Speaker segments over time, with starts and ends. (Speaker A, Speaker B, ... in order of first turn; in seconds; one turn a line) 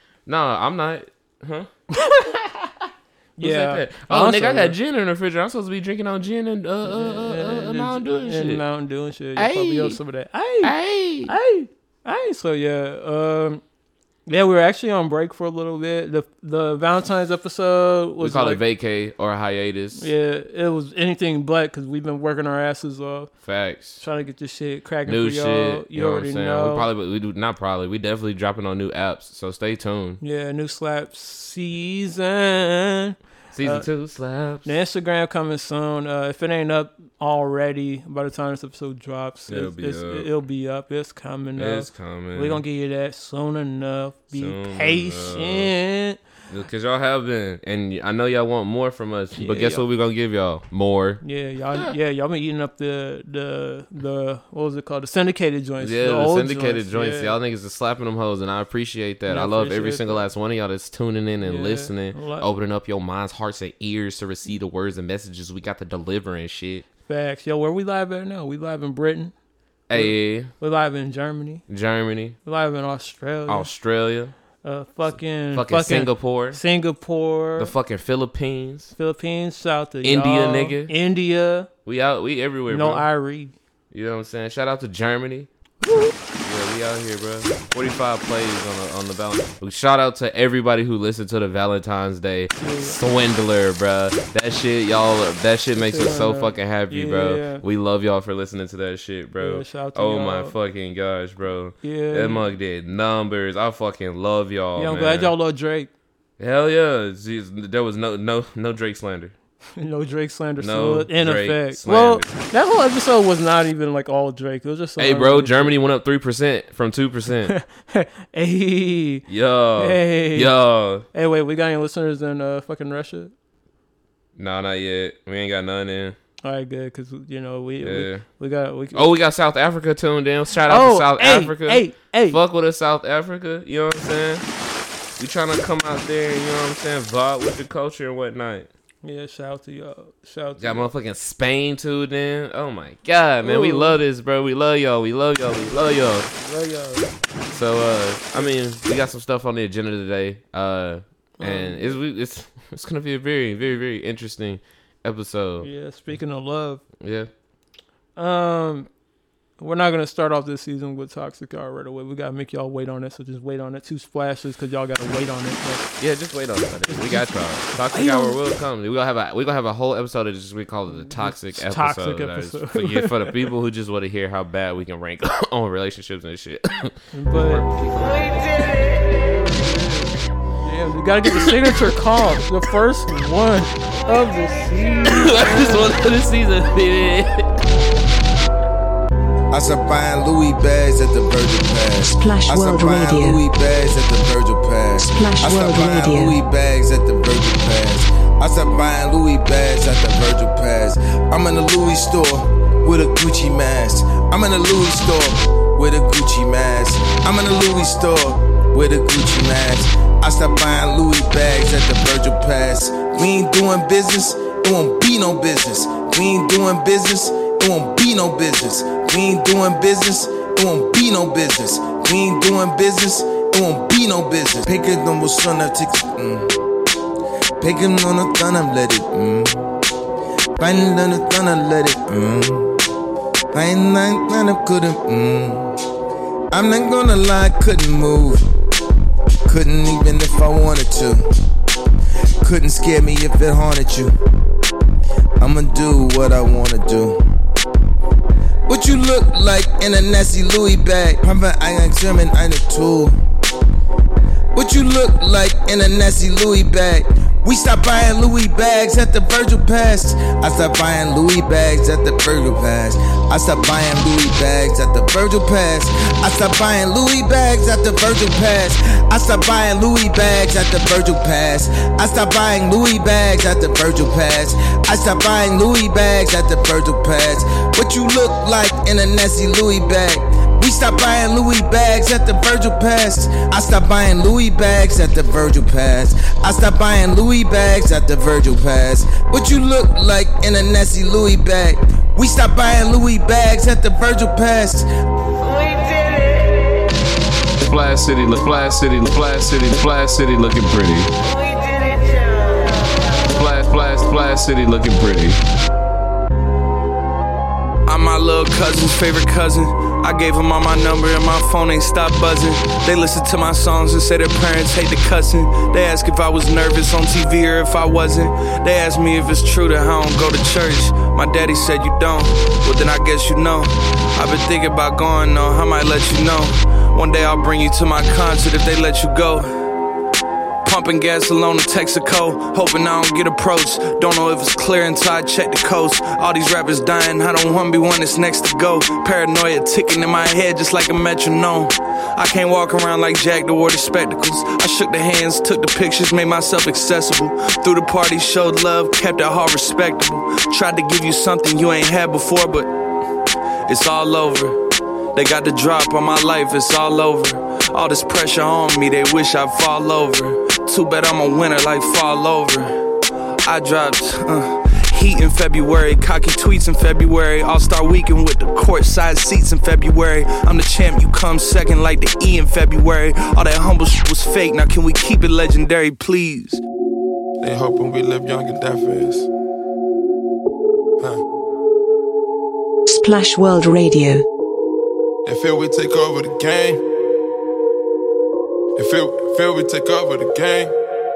Speaker A: 0.2-1.7
Speaker B: 2.0-2.2
Speaker A: 3.4-8.6
Speaker B: 3.4-4.8
Speaker B: 6.8-10.7
Speaker A: 9.3-10.0
Speaker A: 10.6-11.3
Speaker B: 11.3-13.6
Speaker B: 14.3-18.6
Speaker A: 18.2-20.1
Speaker B: 20.0-23.3
Speaker A: 23.4-24.0
Speaker B: 24.0-26.9
Speaker A: 25.1-30.2
Speaker B: 30.2-33.9
Speaker A: 33.5-34.7
Speaker B: 34.6-46.2
Speaker A: 39.5-40.3
Speaker A: 41.6-42.6
Speaker A: 44.3-45.7
Speaker A: 46.5-51.2
Speaker B: 49.4-49.8
Speaker B: 51.2-57.3
Speaker A: 55.8-66.8
Speaker B: 59.3-60.2
Speaker B: 61.4-62.5
Speaker B: 67.1-69.3
Speaker A: 69.9-70.5
Speaker B: 69.9-71.6
Speaker A: 71.7-72.3
Speaker B: 72.4-73.7
Speaker A: 73.5-74.3
Speaker B: 74.6-77.7
Speaker A: 75.5-76.6
Speaker A: 77.6-78.9
Speaker B: 79.0-81.7
Speaker A: 80.0-80.9
Speaker A: 81.8-83.0
Speaker B: 82.7-83.5
Speaker A: 83.9-85.5
Speaker B: 85.8-86.1
Speaker A: 86.4-105.3
Speaker B: 92.6-93.0
Speaker B: 95.8-97.6
Speaker B: 99.4-100.5
Speaker B: 101.8-102.4
Speaker B: 104.7-105.9
Speaker A: 106.4-109.3
Speaker B: 109.8-115.7
Speaker A: 110.6-112.3
Speaker A: 115.0-117.5
Speaker B: 117.5-119.2
Speaker A: 119.3-121.0
Speaker B: 119.8-120.5
Speaker B: 121.1-123.3
Speaker A: 124.4-126.2
Speaker B: 126.4-129.1
Speaker A: 127.8-128.2
Speaker A: 128.9-134.4
Speaker B: 130.7-132.4
Speaker A: 135.2-138.7
Speaker B: 139.0-140.9
Speaker A: 140.6-146.3
Speaker B: 143.4-144.0
Speaker B: 145.7-147.1
Speaker A: 147.5-155.7
Speaker B: 151.4-151.9
Speaker B: 155.6-156.8
Speaker A: 157.0-157.3
Speaker B: 158.2-158.9
Speaker B: 159.6-165.9
Speaker A: 166.0-178.6
Speaker B: 166.9-167.2
Speaker B: 167.9-168.3
Speaker B: 171.0-173.4
Speaker B: 177.1-177.7
Speaker B: 179.0-185.9
Speaker A: 185.1-187.5
Speaker C: 189.5-226.5
Speaker D: 192.0-193.4
Speaker D: 195.0-196.4
Speaker C: 227.6-229.6
Speaker C: 230.6-232.7
Speaker C: 233.5-235.6
Speaker C: 236.5-238.4
Speaker C: 239.5-241.2
Speaker C: 242.4-244.1
Speaker C: 245.4-247.2
Speaker C: 248.7-253.2
Speaker C: 254.5-294.9
Speaker A: 297.6-301.1
Speaker A: 303.2-305.4
Speaker E: 307.9-329.5
Speaker E: 330.6-352.7
Speaker E: 353.7-354.6
Speaker E: 355.1-362.8
Speaker E: 363.4-376.6
Speaker F: 377.4-379.3
Speaker D: 382.9-384.2
Speaker F: 385.2-386.8
Speaker F: 388.8-390.7